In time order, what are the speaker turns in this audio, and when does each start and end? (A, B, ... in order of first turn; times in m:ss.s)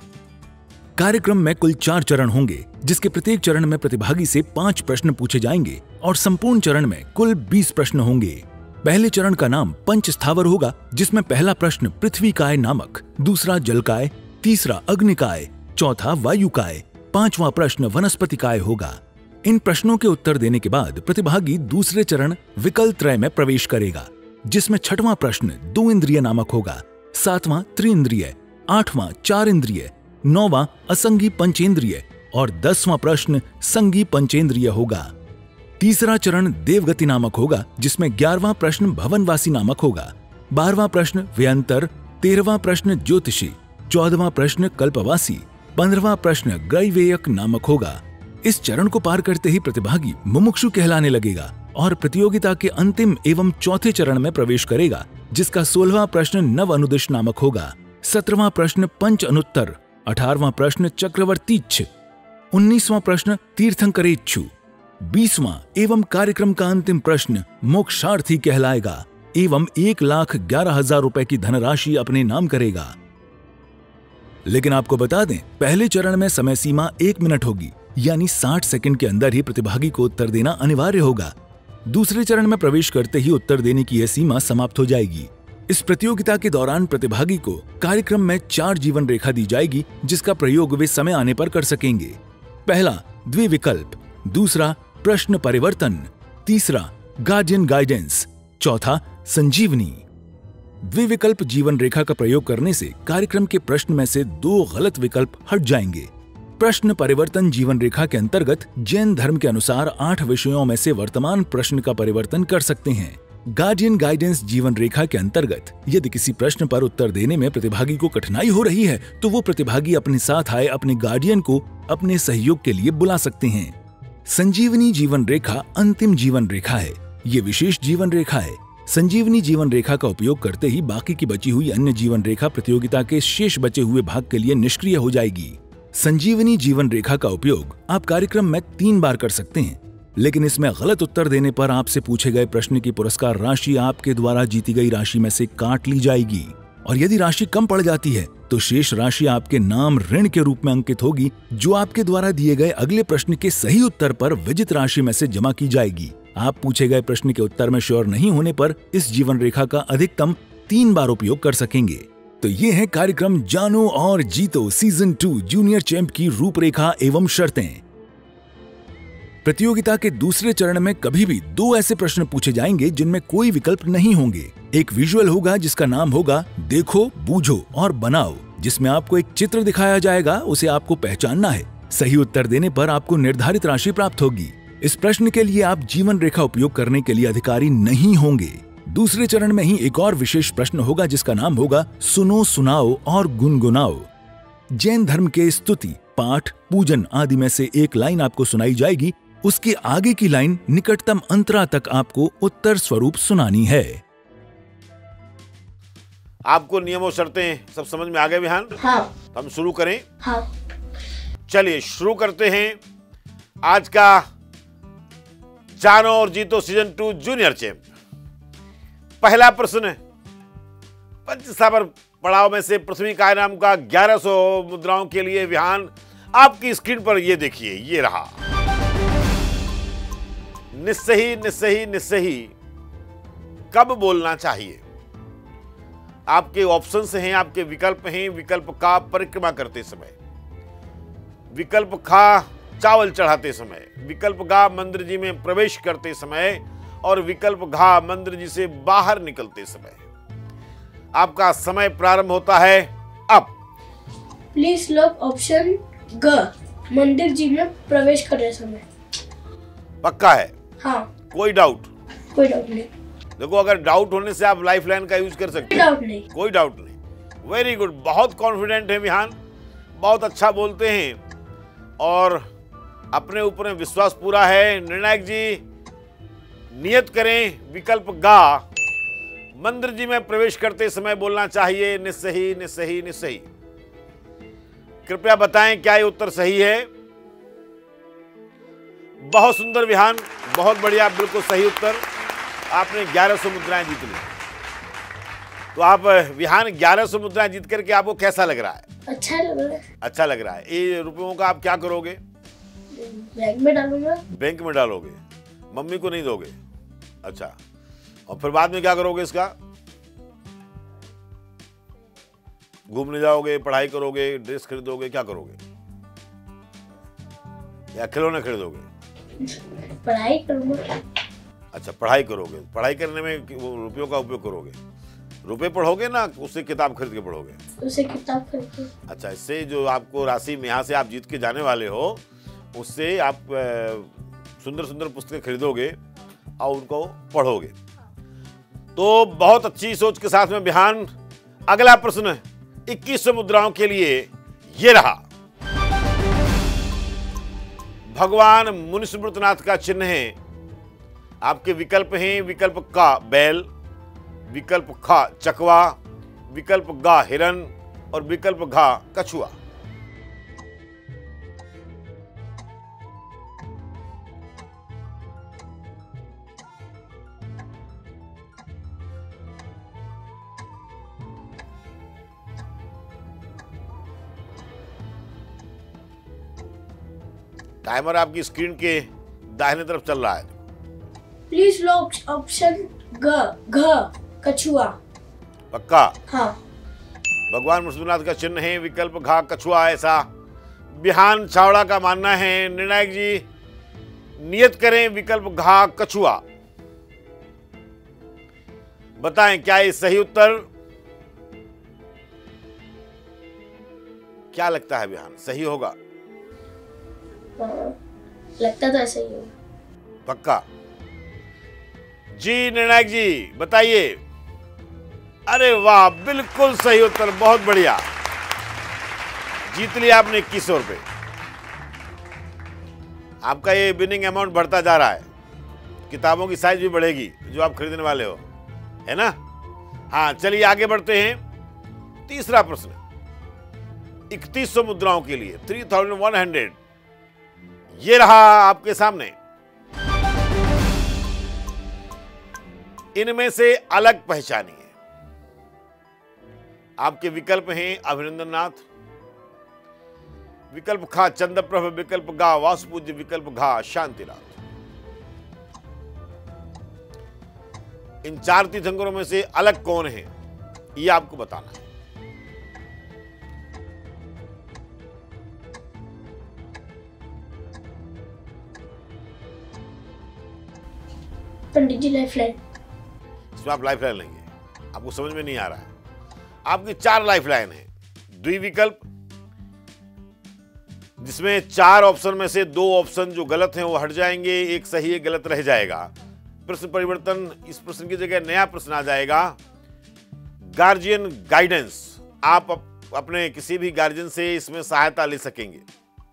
0:01.0-0:35.1 A
0:35.8-1:01.9 A
1:02.5-1:13.0 A
1:14.4-1:21.3 A
1:21.8-1:40.0 A
1:40.8-2:47.8 A
2:49.4-3:14.1 A
3:14.7-3:24.0 A
3:26.4-3:28.8 B
3:28.8-3:29.1 C
3:29.3-3:30.0 B
3:31.5-3:32.8 B
3:33.6-3:34.3 B
3:35.7-3:37.8 B
3:39.2-3:40.0 B
3:41.2-3:48.4 B
3:50.7-3:52.5 B
3:53.7-3:54.8 B
3:56.3-4:00.1 B
4:01.5-4:10.0 B
4:11.1-4:13.5 B
4:14.5-4:18.8 C
4:20.0-4:20.5 B
4:20.8-4:21.1 C
4:21.3-4:21.9 B
4:22.3-4:22.9 C
4:23.4-4:29.4 B
4:25.7-4:26.2 C
4:30.0-4:31.2 B
4:32.0-4:32.4 B
4:33.1-4:35.6 B
4:36.7-4:38.6 B
4:39.5-4:43.4 B
4:45.1-4:46.9 B
4:49.2-4:52.0 B
4:52.7-4:54.3 B
4:55.7-4:58.9 B
4:59.1-4:59.8 C
5:00.0-5:02.2 B
5:02.9-5:04.2 C
5:04.3-5:05.2 B
5:05.7-5:06.6 B
5:07.2-5:07.6 B
5:08.3-5:09.5 B
5:12.9-5:15.6 B
5:17.9-5:18.9 B
5:19.4-5:21.0 C
5:21.7-5:24.8 B
5:25.4-5:27.6 B
5:27.8-5:28.9 C
5:29.1-5:32.2 B
5:32.7-5:36.0 B
5:36.6-5:37.7 B
5:39.0-5:41.1 B
5:41.7-5:45.2 B
5:48.1-5:50.4 B
5:51.4-5:53.7 B
5:54.5-5:56.0 B
5:56.5-5:59.5 B
6:17.8-6:20.6 B
6:21.5-6:25.0 C
6:25.7-6:26.1 B
6:26.3-6:26.6 C
6:27.5-6:30.3 B
6:30.9-6:33.4 B
6:34.4-6:36.4 B
6:39.2-6:40.7 B
6:44.5-6:46.0 B
6:47.6-6:47.9 C
6:48.6-6:49.5 C
6:50.2-6:50.6 B
6:52.3-6:54.2 B
6:55.5-6:58.1 B
6:59.7-7:01.0 B
7:03.4-7:05.2 B
7:06.1-7:08.4 B
7:09.0-7:09.4 B
7:10.1-7:11.4 B
7:12.3-7:13.0 B
7:14.3-7:16.8 B
7:17.9-7:19.3 B
7:23.2-7:24.9 B
7:27.0-7:28.8 B
7:30.7-7:34.6 B
7:38.2-7:40.3 B
7:41.0-7:41.8 B
7:51.7-7:52.6 C
7:53.6-7:55.9 B
7:56.6-7:59.0 B
8:01.2-8:06.1 B
8:06.6-8:09.6 B
8:10.7-8:15.8 B